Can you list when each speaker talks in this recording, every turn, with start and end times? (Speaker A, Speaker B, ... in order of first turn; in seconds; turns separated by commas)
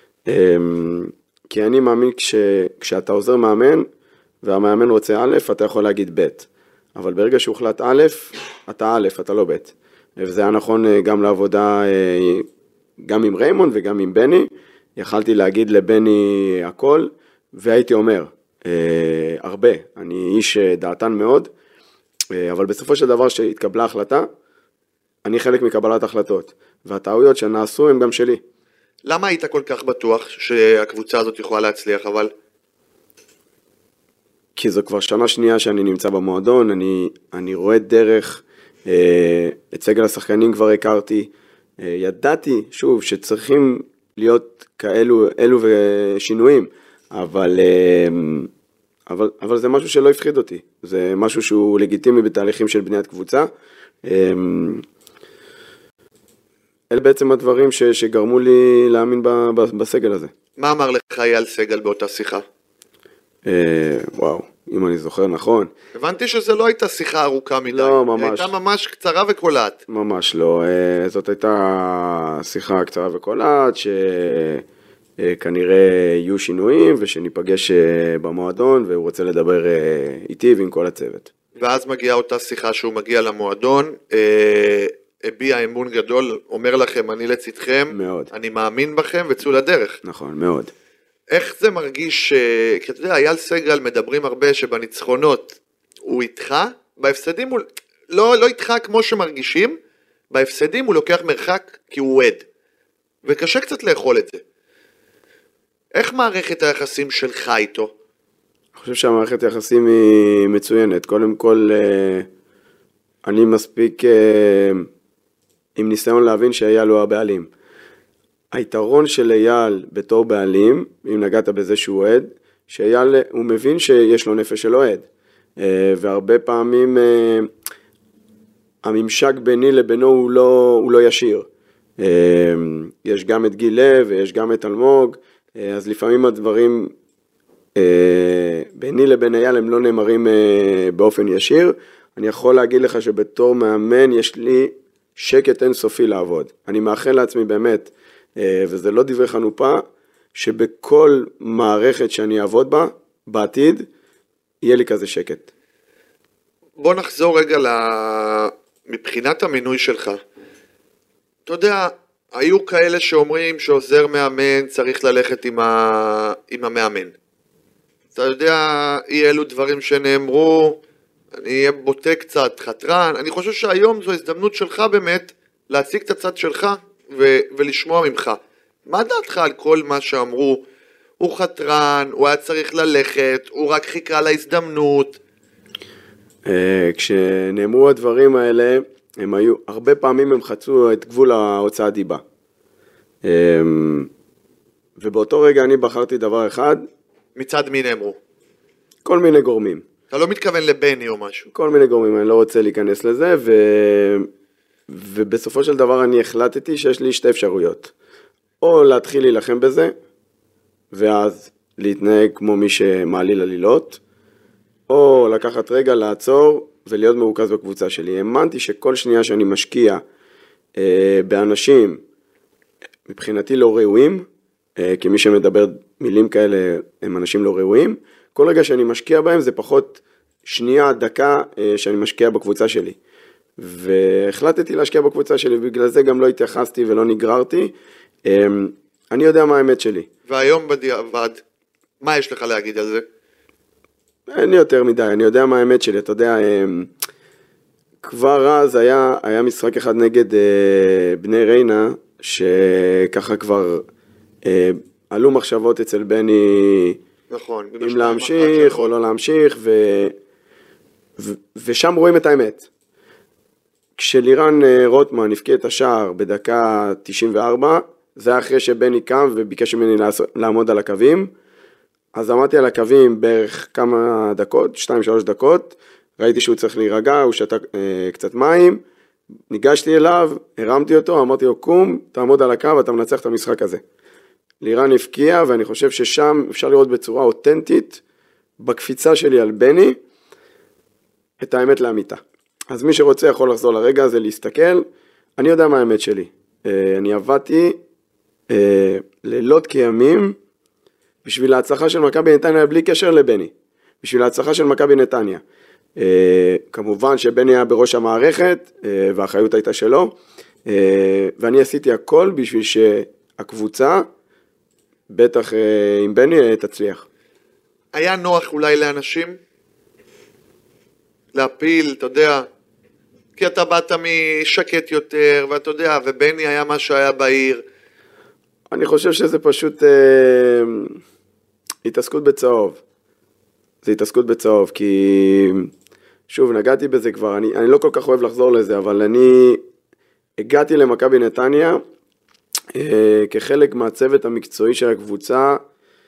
Speaker A: 0.2-3.8, Speaker A: 4.4-12.5, Speaker A: 13.0-21.5, Speaker A: 22.3-24.3, Speaker A: 25.2-28.4, Speaker B: 29.1-32.3, Speaker A: 34.5-48.5, Speaker A: 49.1-53.5, Speaker A: 54.0-54.8, Speaker A: 56.9-60.3, Speaker B: 60.6-62.4, Speaker A: 63.5-65.7, Speaker B: 65.9-69.8, Speaker A: 67.7-68.5, Speaker A: 69.9-74.6, Speaker A: 75.2-81.3, Speaker B: 81.6-90.0, Speaker A: 87.9-88.3, Speaker A: 90.0-90.7, Speaker B: 91.3-99.8, Speaker B: 100.3-102.4, Speaker B: 103.2-104.4, Speaker B: 106.0-107.9, Speaker A: 108.8-112.3, Speaker A: 113.2-114.9, Speaker A: 115.8-117.5, Speaker A: 118.5-125.1, Speaker A: 125.6-127.5, Speaker A: 128.8-131.5, Speaker A: 132.0-136.9, Speaker A: 137.8-153.9, Speaker A: 154.6-155.5, Speaker B: 156.8-160.2, Speaker B: 161.5-167.1, Speaker B: 168.1-170.8, Speaker B: 171.3-180.6, Speaker B: 181.2-185.2, Speaker A: 186.4-192.2, Speaker A: 193.2-194.1, Speaker A: 195.0-196.8, Speaker B: 197.4-198.2, Speaker A: 199.0-199.8, Speaker B: 200.1-201.5, Speaker A: 201.5-204.3, Speaker A: 204.9-207.9, Speaker A: 208.6-209.9, Speaker A: 210.9-214.0, Speaker A: 214.9-220.0, Speaker A: 220.8-222.0, Speaker A: 223.1-233.0, Speaker A: 233.6-237.7, Speaker A: 238.2-240.1, Speaker B: 240.3-241.4, Speaker B: 242.0-243.0, Speaker A: 244.3-246.9, Speaker A: 248.0-253.8, Speaker A: 254.4-257.0, Speaker B: 257.3-258.9, Speaker A: 257.8-260.1, Speaker A: 261.2-262.7, Speaker A: 264.0-271.3, Speaker A: 272.1-278.8, Speaker A: 279.5-283.8, Speaker A: 284.6-288.0, Speaker A: 288.6-290.0, Speaker A: 291.4-294.8, Speaker A: 295.4-297.8, Speaker A: 298.5-300.4, Speaker A: 301.2-305.4, Speaker A: 306.0-310.1, Speaker A: 310.6-314.0, Speaker A: 315.1-317.1, Speaker B: 317.9-319.4, Speaker B: 321.3-322.4, Speaker B: 323.4-327.6, Speaker A: 328.7-331.0, Speaker A: 331.8-332.8, Speaker A: 333.8-335.7, Speaker A: 336.3-339.6, Speaker A: 340.4-341.8, Speaker A: 342.7-345.6